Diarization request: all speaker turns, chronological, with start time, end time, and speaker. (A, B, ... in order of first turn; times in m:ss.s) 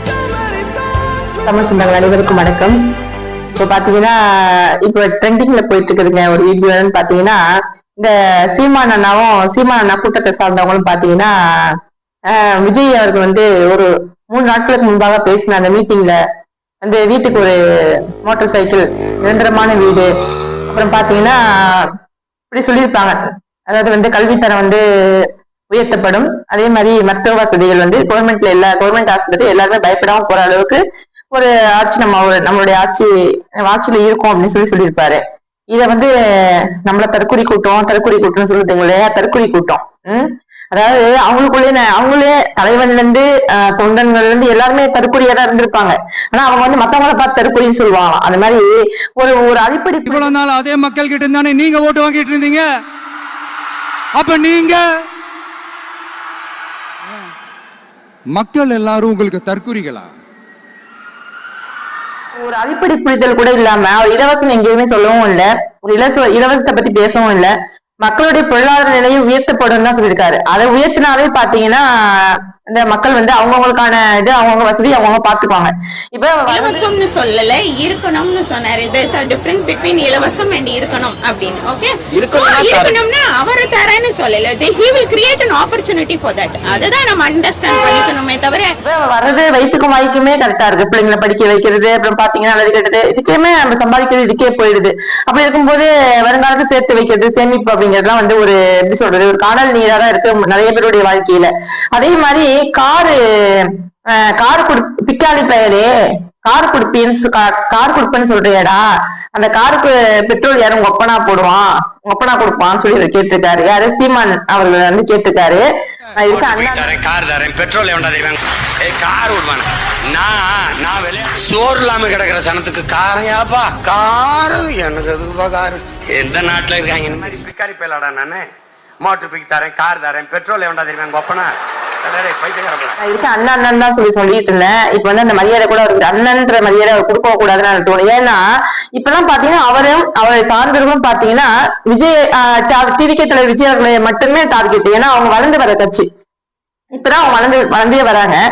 0:01.4-0:02.8 A
0:03.6-0:07.4 A
0:08.0-0:11.8 A
0:12.3-0:16.2 A
0:16.8-0:20.1 A
0:20.7-0:21.9 A
0:22.5-0:30.8 A
0:31.3-0:35.2 A
0:35.7-0:36.1 A
0:36.8-0:50.3 A
0:50.1-0:52.6 B
0:54.2-0:54.8 B
0:58.3-1:00.1 B
1:02.4-1:16.9 A
1:16.5-1:28.7 C
1:28.8-1:45.9 A
1:46.4-1:55.6 A
1:56.2-1:57.0 A
1:56.3-2:08.5 D
2:09.0-2:13.0 D
2:13.0-2:18.4 A
2:19.0-2:26.0 A
2:26.9-2:28.4 A